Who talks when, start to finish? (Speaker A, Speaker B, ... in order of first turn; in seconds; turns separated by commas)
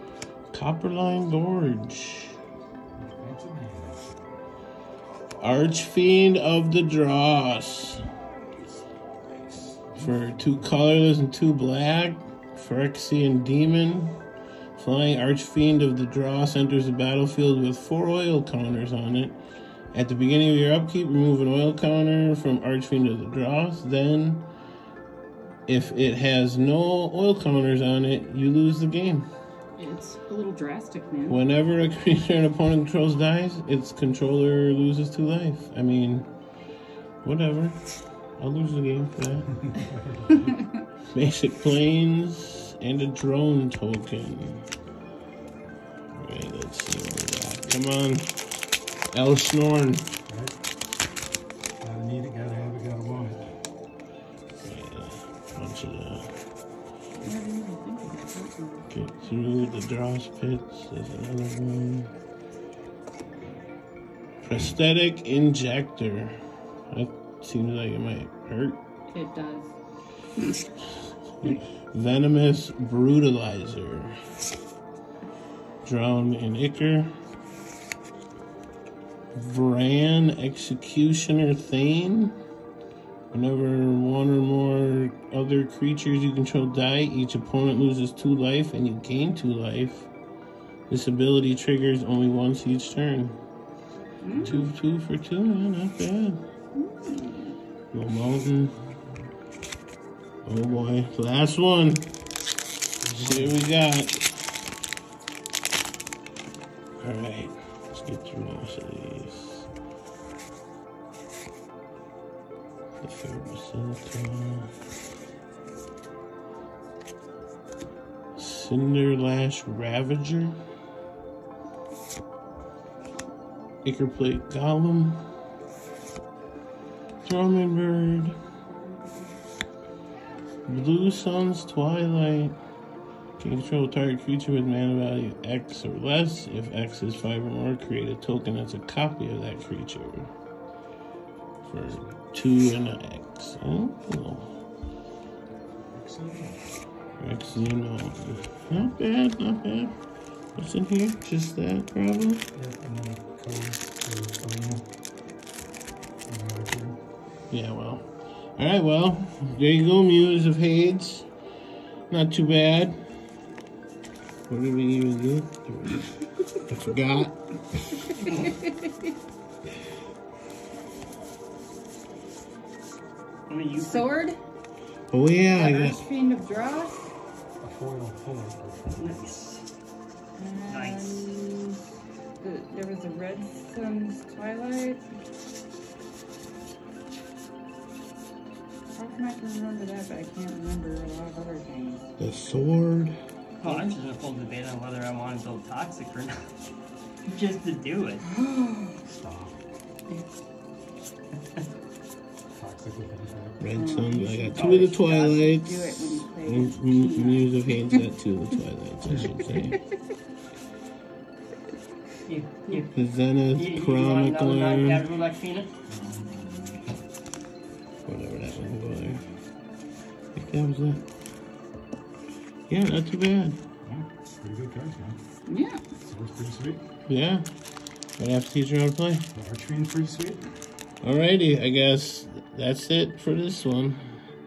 Speaker A: 0.5-2.4, Speaker B: 3.0-4.3, Speaker A: 5.4-8.1, Speaker B: 8.5-10.7, Speaker A: 10.0-14.2, Speaker A: 14.8-19.4, Speaker A: 19.9-24.5, Speaker A: 25.7-29.3, Speaker C: 29.8-31.4, Speaker A: 31.3-36.3, Speaker A: 37.2-37.8, Speaker A: 38.4-39.7, Speaker B: 39.9-40.5, Speaker A: 41.1-44.7, Speaker A: 46.1-48.6, Speaker A: 49.1-50.1, Speaker B: 50.3-50.6, Speaker B: 51.8-53.5, Speaker A: 54.6-56.4, Speaker C: 57.2-58.9, Speaker A: 58.9-62.1, Speaker A: 64.4-66.4, Speaker A: 66.9-68.8, Speaker C: 69.1-69.7, Speaker A: 71.4-74.2, Speaker A: 75.8-77.2, Speaker A: 79.3-82.4, Speaker A: 83.3-90.1, Speaker A: 90.9-93.4, Speaker C: 94.2-94.6, Speaker B: 94.3-94.7, Speaker A: 94.4-96.4, Speaker C: 96.8-97.6, Speaker A: 97.9-98.8, Speaker B: 98.9-99.2, Speaker A: 100.5-102.1, Speaker B: 103.0-103.6, Speaker A: 103.2-104.2, Speaker A: 107.0-109.7, Speaker A: 113.0-114.7, Speaker A: 118.4-120.6, Speaker A: 123.8-125.2, Speaker A: 127.2-128.4, Speaker C: 128.7-129.4, Speaker A: 130.7-132.6, Speaker A: 133.4-140.3, Speaker A: 141.7-144.6, Speaker B: 145.8-146.6, Speaker A: 147.2-149.9, Speaker A: 150.6-152.4, Speaker B: 152.6-154.8, Speaker B: 156.3-157.0, Speaker A: 157.5-161.3, Speaker A: 162.1-163.0, Speaker A: 164.5-166.2, Speaker A: 166.7-167.4, Speaker D: 168.2-168.6, Speaker D: 173.5-174.2, Speaker C: 173.7-174.4, Speaker A: 175.1-176.0, Speaker C: 175.5-177.1, Speaker B: 177.6-179.4, Speaker D: 179.0-179.7, Speaker C: 180.4-181.8, Speaker D: 180.7-181.3, Speaker C: 182.4-185.0, Speaker C: 188.9-192.1, Speaker A: 192.2-193.2, Speaker D: 193.6-196.4, Speaker D: 197.3-198.3, Speaker C: 198.2-199.0, Speaker B: 199.0-199.6, Speaker B: 202.5-203.7, Speaker A: 203.6-209.8, Speaker C: 203.7-204.7, Speaker D: 204.5-205.4, Speaker C: 205.3-208.0, Speaker C: 209.4-209.8, Speaker D: 212.3-212.9, Speaker A: 212.9-215.1, Speaker D: 213.5-215.7, Speaker B: 215.9-216.9, Speaker A: 218.1-219.2, Speaker A: 220.3-221.0, Speaker A: 222.7-223.6, Speaker B: 223.8-225.2, Speaker C: 225.5-225.8, Speaker B: 226.0-226.8, Speaker A: 227.1-227.5, Speaker A: 228.2-229.3, Speaker B: 229.3-230.5, Speaker A: 231.0-234.2